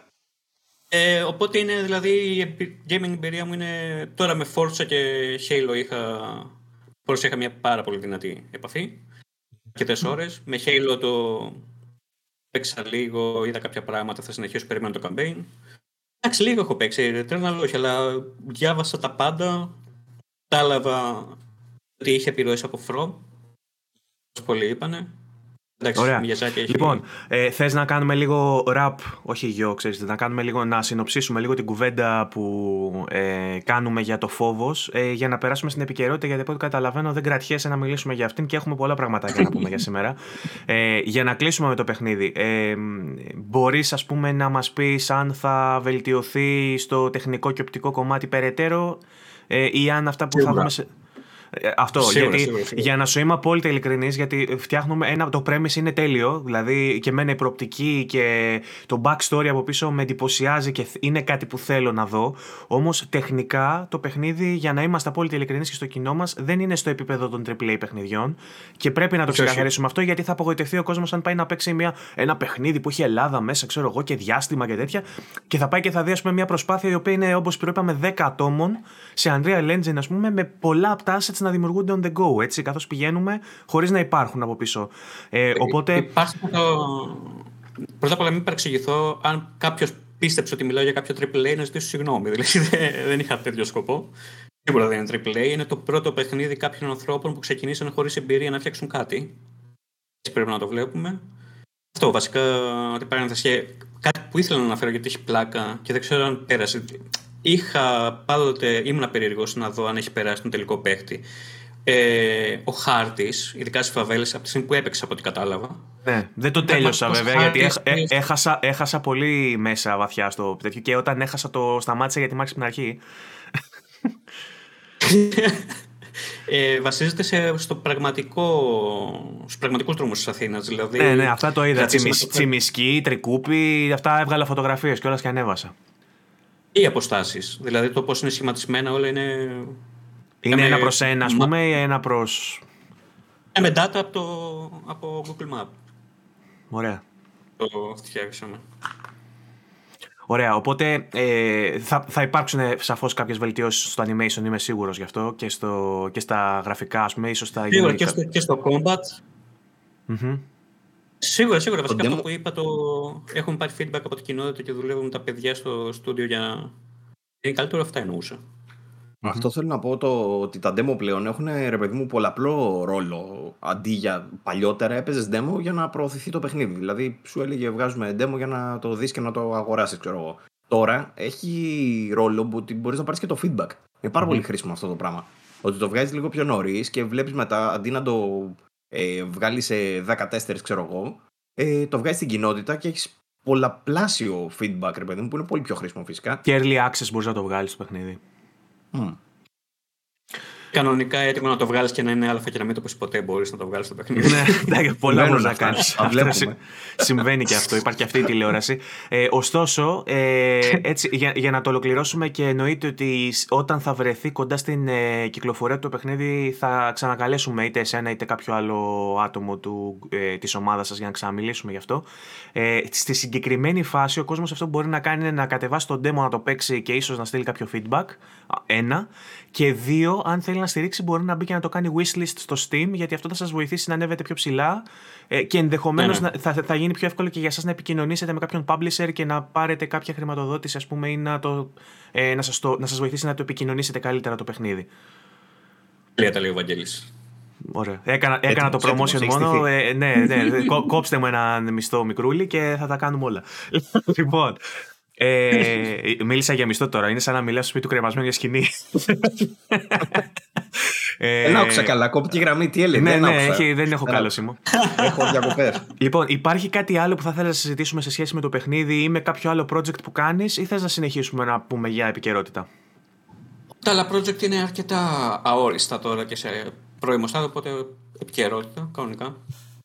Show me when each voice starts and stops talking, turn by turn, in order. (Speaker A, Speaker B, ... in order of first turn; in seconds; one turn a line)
Speaker A: 0.9-6.5
Speaker A: 7.0-9.0
Speaker A: 9.7-11.6
Speaker A: 12.5-15.5
Speaker A: 16.2-19.8
Speaker A: 20.5-21.4
Speaker A: 22.0-23.2
Speaker A: 24.3-25.1
Speaker A: 25.8-27.0
Speaker B: 25.9-40.2
Speaker B: 40.7-50.9
Speaker A: 50.3-50.7
Speaker B: 51.5-86.1
Speaker A: 52.0-52.9
Speaker A: 69.3-69.7
Speaker A: 85.5-87.4
Speaker A: 88.0-94.1
Speaker A: 94.6-99.4
Speaker A: 100.2-101.2
Speaker A: 101.9-111.2
Speaker A: 111.8-115.8
Speaker B: 116.0-123.0
Speaker A: 116.6-118.2
Speaker A: 125.0-125.8
Speaker A: 126.5-132.5
Speaker B: 131.0-135.7
Speaker A: 136.7-139.8
Speaker B: 140.4-142.6
Speaker A: 140.5-141.5
Speaker A: 143.5-145.7
Speaker B: 146.7-147.0
Speaker A: 147.6-148.6
Speaker B: 150.3-158.2
Speaker A: 157.7-159.2
Speaker B: 160.1-160.4
Speaker A: 161.2-166.7
Speaker C: 161.9-162.2
Speaker A: 167.4-168.4
Speaker C: 169.2-196.4
Speaker B: 196.4-198.2
Speaker C: 198.9-199.2
Speaker A: 200.7-204.7
Speaker B: 204.2-244.9
Speaker C: 205.0-207.1
Speaker A: 236.0-236.3
Speaker A: 246.2-247.1
Speaker B: 247.7-254.6
Speaker C: 248.5-249.7
Speaker A: 250.3-250.7
Speaker B: 255.2-261.9
Speaker C: 261.4-264.3
Speaker B: 262.9-264.6
Speaker A: 264.7-265.5
Speaker C: 265.0-265.8
Speaker B: 266.0-272.7
Speaker A: 273.8-279.4